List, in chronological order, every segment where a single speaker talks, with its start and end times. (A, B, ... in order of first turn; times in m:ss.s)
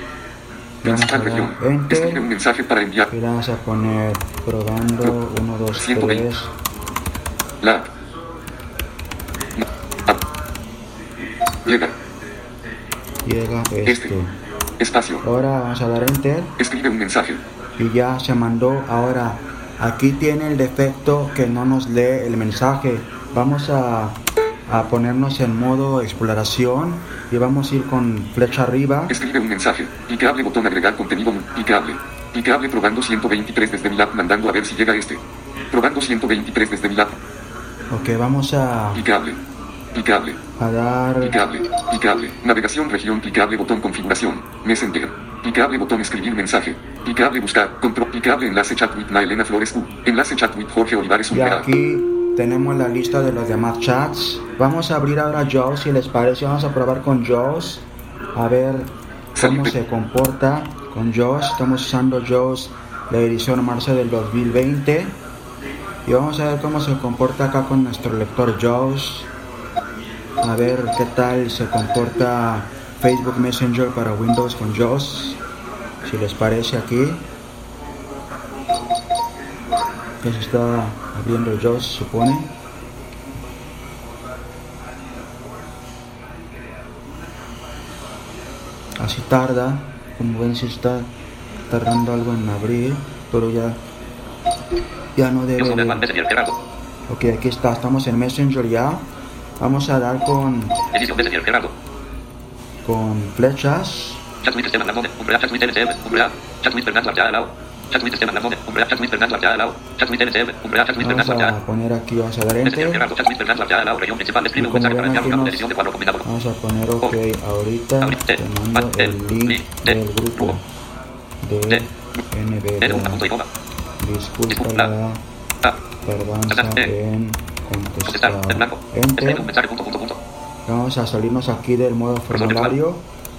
0:00.8-0:02.2 A
0:00.8-0:03.1 B
0:03.1-0:06.5 A
0:05.8-0:06.2 B
0:07.6-0:07.9 B
0:11.6-0:11.9 B
0:13.2-0:14.3 A
0:14.8-0:15.2 B
0:15.2-0:16.5 A
0:16.6-0:17.4 B
0:17.8-0:29.2 A
0:29.1-0:37.2 B
0:37.9-0:39.0 A
0:38.9-0:39.4 B
0:39.9-0:40.4 B
0:40.6-0:41.4 A
0:41.2-0:51.6 B
0:51.3-1:05.2 A
0:59.4-0:59.7 B
1:06.0-1:09.3 A
1:10.4-1:15.4 A
1:16.0-1:17.2 A
1:20.2-1:22.5 A
1:29.0-1:31.1 A
1:31.7-1:33.8 A
1:35.2-1:36.1 A
1:35.6-1:36.5 C
1:37.1-1:39.0 A
1:39.6-1:40.8 A
1:40.9-1:41.7 C
1:42.8-1:44.2 A
1:44.4-1:51.5 C
1:51.0-1:53.0 A
1:52.6-1:56.2 C
1:54.5-1:55.7 A
1:56.2-2:00.6 A
1:58.0-1:59.6 C
2:01.4-2:03.3 A
2:02.8-2:03.4 C
2:04.0-2:05.2 A
2:04.5-2:04.8 C
2:06.0-2:09.5 A
2:06.5-2:06.8 C
2:08.1-2:10.2 C
2:10.6-2:13.0 A
2:12.3-2:12.7 C